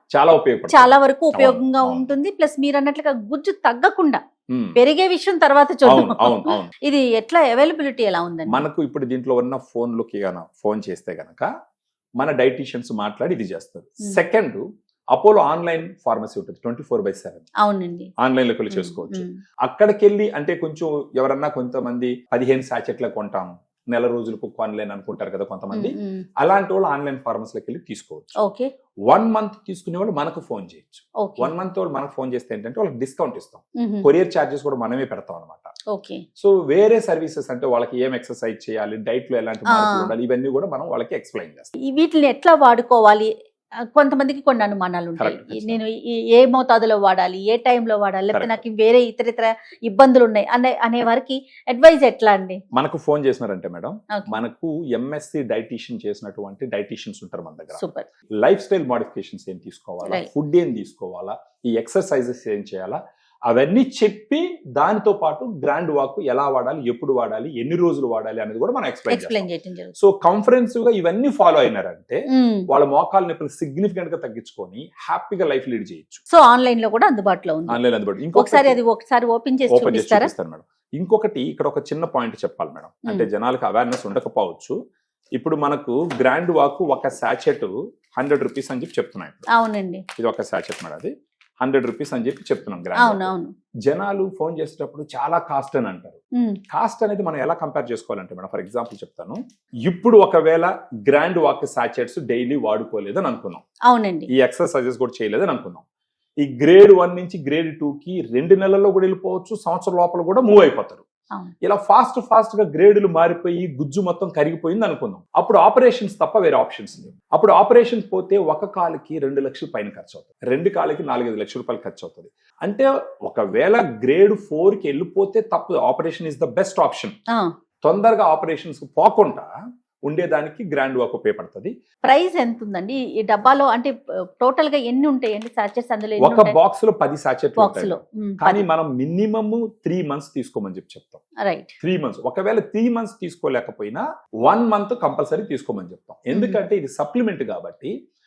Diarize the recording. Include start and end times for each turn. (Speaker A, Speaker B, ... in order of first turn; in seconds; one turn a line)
Speaker A: 0.1-2.0
Speaker B: 0.7-4.2
Speaker A: 4.5-4.8
Speaker B: 4.8-8.6
Speaker A: 5.8-6.7
Speaker A: 8.5-11.4
Speaker A: 12.2-14.6
Speaker A: 15.1-17.4
Speaker B: 17.6-18.1
Speaker A: 18.2-28.3
Speaker B: 18.7-19.4
Speaker B: 25.7-26.2
Speaker B: 28.4-28.7
Speaker A: 29.1-35.7
Speaker B: 31.2-31.5
Speaker B: 33.8-34.1
Speaker B: 35.9-36.2
Speaker A: 36.4-41.7
Speaker B: 39.7-40.1
Speaker B: 41.8-43.3
Speaker B: 43.9-52.6
Speaker A: 45.2-45.8
Speaker A: 48.3-48.6
Speaker A: 52.7-57.8
Speaker B: 57.8-58.1
Speaker A: 58.4-76.2
Speaker B: 69.1-69.9
Speaker B: 72.3-72.7
Speaker B: 76.3-77.8
Speaker A: 77.7-78.8
Speaker B: 78.3-80.3
Speaker A: 79.7-84.7
Speaker A: 85.4-89.5
Speaker B: 89.5-90.0
Speaker A: 90.2-93.3
Speaker B: 93.0-93.5
Speaker A: 93.8-103.6
Speaker B: 103.9-104.3
Speaker A: 104.3-105.8
Speaker A: 106.4-111.0
Speaker A: 111.6-127.1
Speaker A: 127.8-129.5
Speaker A: 130.1-131.7
Speaker B: 132.1-136.5
Speaker A: 136.2-141.2
Speaker B: 137.6-138.7
Speaker B: 141.4-141.7
Speaker A: 141.8-147.9
Speaker B: 146.3-146.6